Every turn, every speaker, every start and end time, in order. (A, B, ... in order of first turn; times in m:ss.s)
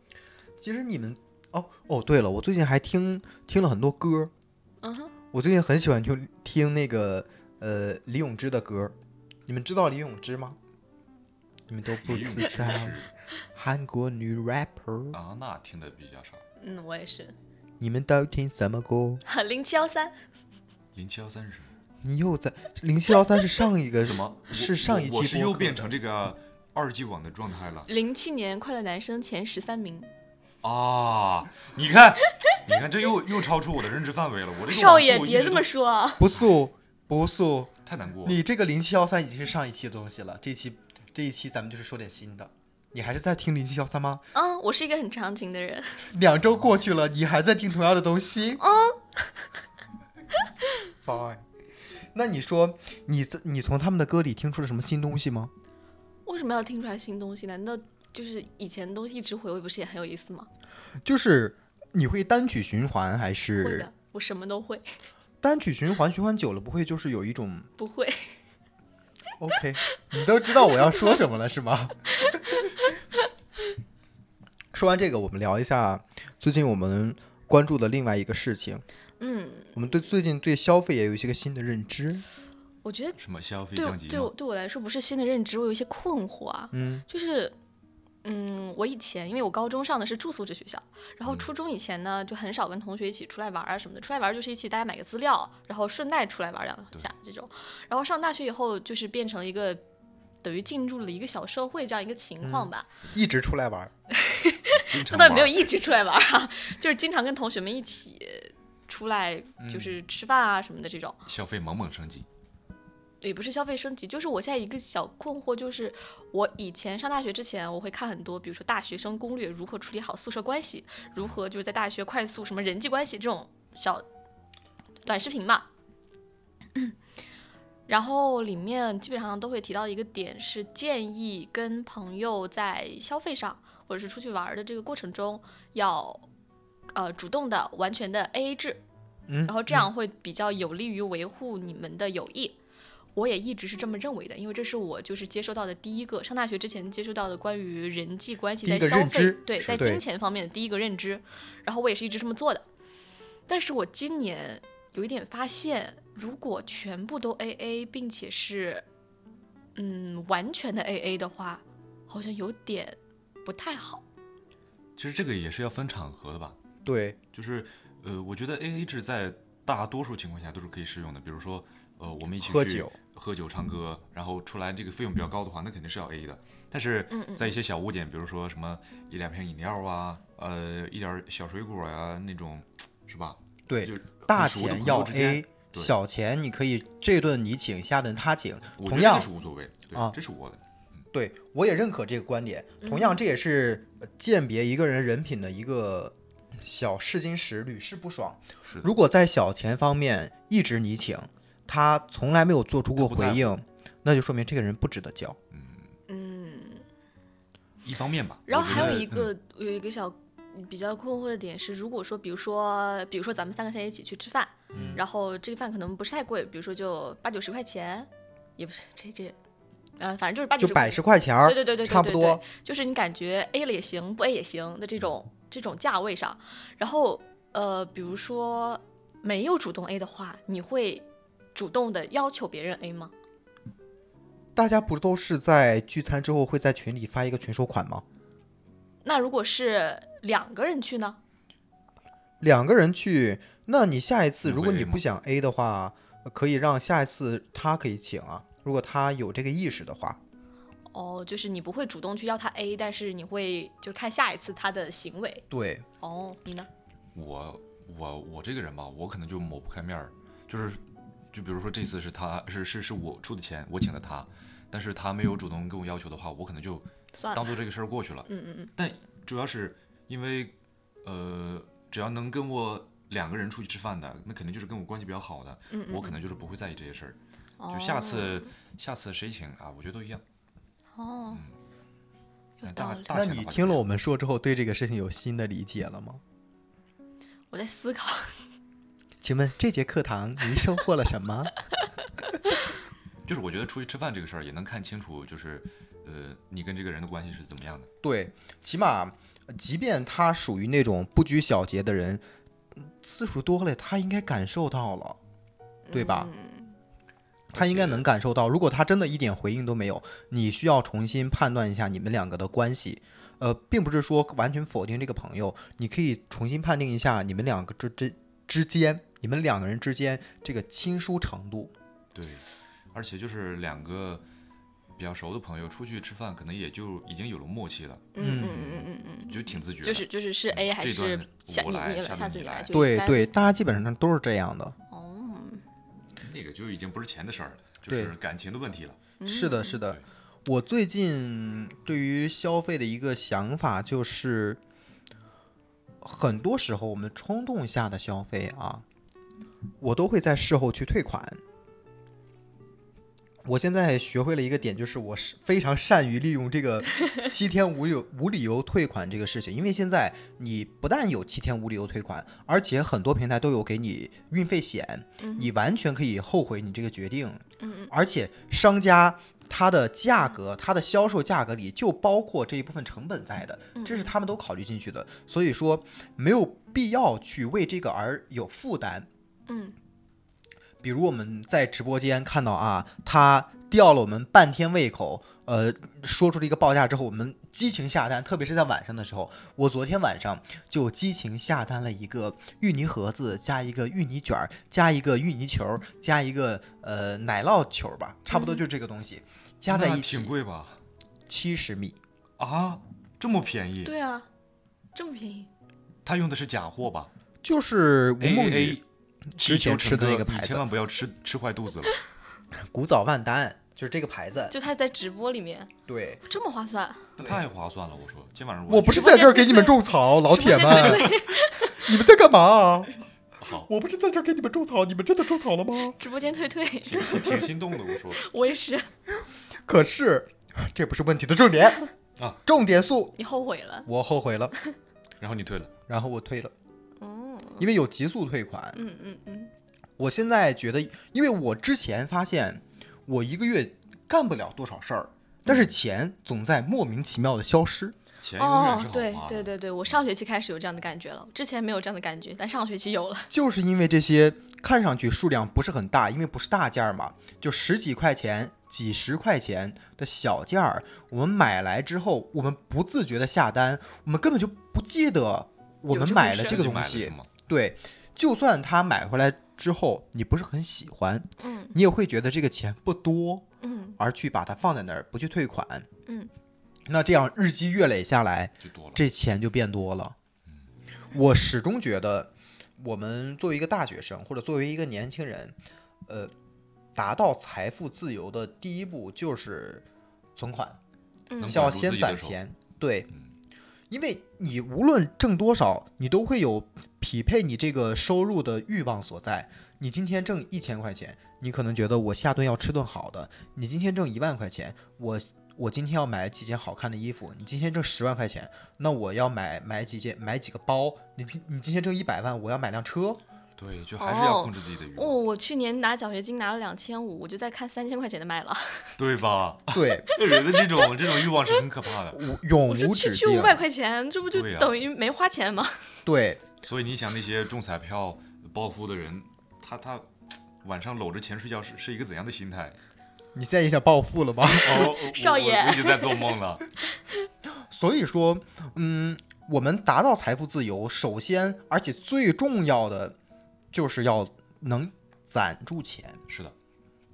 0:00.6-0:04.3 A
0:04.8-0:05.1 B
0:05.3-0:09.0 A
0:09.5-0:10.6 A
0:11.7-0:13.0 A
0:12.0-0:13.1 C
0:13.5-0:15.2 A
0:15.1-0:16.4 C
0:16.6-0:17.4 B
0:17.8-0:19.2 A
0:19.3-0:20.1 B
0:21.0-0:21.7 C
0:22.0-0:25.9 A
0:24.0-0:27.9 C
0:27.9-0:30.1 B
0:30.6-0:35.7 C
0:34.7-0:36.3 B
0:36.2-0:37.7 A
0:37.8-0:38.4 C
0:38.2-0:44.2 A
0:44.3-0:46.1 B
0:46.1-0:48.6 A
0:48.6-0:49.5 B
0:51.0-0:51.4 A
0:52.1-0:55.5 A
0:56.3-1:00.5 B
1:01.0-1:03.9 A
1:03.6-1:04.9 B
1:05.4-1:07.7 A
1:07.8-1:08.3 B
1:09.4-1:12.7 A
1:10.6-1:11.1 B
1:12.2-1:12.6 B
1:14.7-1:18.8 A
1:19.2-1:19.8 B
1:19.8-1:22.2 A
1:22.8-1:23.2 B
1:23.2-1:24.3 C
1:23.7-1:27.6 B
1:26.7-1:27.0 A
1:28.2-1:39.8 B
1:40.4-1:42.9 B
1:42.4-1:43.9 A
1:44.1-1:51.2 B
1:44.7-1:45.7 C
1:49.6-1:50.0 A
1:51.3-1:52.3 C
1:53.2-2:04.0 B
2:05.0-2:05.7 B
2:07.9-2:16.2 B
2:16.9-2:18.8 B
2:19.3-2:19.9 A
2:19.5-2:22.6 B
2:23.2-2:32.7 B
2:28.6-2:30.0 A
2:33.5-2:38.8 B
2:39.8-2:44.0 B
2:45.0-2:46.6 C
2:46.8-2:47.2 A
2:47.3-3:05.9 C
2:52.4-2:53.0 A
2:57.1-2:57.6 B
3:03.7-3:09.3 A
3:08.8-3:10.6 C
3:11.1-3:25.4 A
3:12.8-3:13.2 B
3:23.0-3:23.5 C
3:25.5-3:25.9 C
3:26.1-3:26.8 B
3:27.8-3:29.3 C
3:28.5-3:39.4 B
3:34.7-3:35.0 A
3:34.7-3:35.0 C
3:40.0-3:53.1 B
3:40.6-3:42.4 A
3:54.6-3:58.0 A
3:59.0-4:01.2 B
4:02.4-4:10.2 A
4:04.4-4:05.0 C
4:10.9-4:15.4 B
4:15.5-4:15.8 A
4:16.0-4:16.7 B
4:17.2-4:37.2 C
4:27.1-4:27.6 B
4:28.3-4:28.7 B
4:35.7-4:36.2 B
4:37.6-4:38.5 B
4:37.7-4:40.2 C
4:40.9-4:41.4 B
4:42.6-4:43.2 B
4:42.6-4:43.8 C
4:43.1-4:46.2 A
4:47.5-4:48.4 B
4:49.2-4:51.5 A
4:53.2-4:57.9 C
4:58.0-5:02.2 A
5:02.8-5:05.2 A
5:05.9-5:06.7 B
5:05.9-5:06.3 A
5:07.5-5:08.0 C
5:07.5-5:21.7 A
5:22.1-5:24.2 C
5:25.0-5:32.7 C
5:28.1-5:33.3 B
5:28.2-5:28.6 A
5:32.7-5:34.8 A
5:34.9-5:35.6 B
5:36.2-5:39.0 C
5:37.9-5:38.1 A
5:39.2-5:39.8 B
5:39.2-5:44.6 A
5:46.0-5:48.8 A
5:49.8-5:51.4 A
5:53.4-6:19.1 A
6:05.2-6:05.5 B
6:07.6-6:07.9 B
6:13.8-6:14.1 B
6:19.5-6:19.8 B
6:20.8-6:40.3 A
6:38.3-6:38.6 B
6:39.7-6:40.8 C
6:41.3-6:42.0 A
6:42.4-6:43.9 C
6:43.8-6:44.3 B
6:45.0-6:45.5 B
6:46.0-6:47.1 C
6:47.4-6:48.8 A
6:48.2-6:51.9 C
6:49.3-6:50.6 A
6:52.6-6:54.5 A
6:54.5-6:55.7 B
6:55.9-6:56.2 A
6:56.2-6:57.1 B
6:57.2-6:59.0 C
6:58.7-7:01.2 A
6:58.9-7:01.8 B
7:01.8-7:02.9 A
7:03.4-7:03.7 C
7:03.7-7:06.0 A
7:06.0-7:07.4 B
7:06.9-7:08.2 C
7:08.2-7:08.9 B
7:09.7-7:11.8 A
7:12.4-7:13.1 A
7:13.2-7:13.9 B
7:13.9-7:14.5 A
7:15.2-7:15.7 C
7:15.9-7:16.5 A
7:17.0-7:17.7 B
7:17.6-7:18.8 A
7:18.8-7:19.5 B
7:20.0-7:28.0 A
7:28.2-7:29.9 C
7:28.4-7:33.3 B
7:33.3-7:53.5 A
7:45.9-7:46.6 B
7:46.4-7:47.3 C
7:51.4-7:51.8 B
7:53.6-7:54.0 B
7:54.0-7:55.9 A
7:56.9-8:00.2 A
7:58.6-7:59.0 C
8:01.1-8:05.6 A
8:06.1-8:06.3 A
8:07.0-8:10.8 A
8:11.3-8:11.7 B
8:11.4-8:12.4 C
8:11.4-8:13.1 A
8:13.9-8:33.2 A
8:33.6-8:35.2 C
8:34.0-8:38.9 B
8:39.0-8:42.2 C
8:39.7-8:40.1 A
8:42.1-8:43.6 A
8:42.7-8:46.0 B
8:44.3-8:44.8 C
8:46.1-8:46.4 A
8:46.6-8:50.1 C
8:50.6-8:52.8 C
8:53.4-8:55.0 A
8:54.5-8:56.6 C
8:54.7-8:56.3 B
8:57.5-9:03.2 A
9:03.7-9:06.2 A
9:06.3-9:06.5 C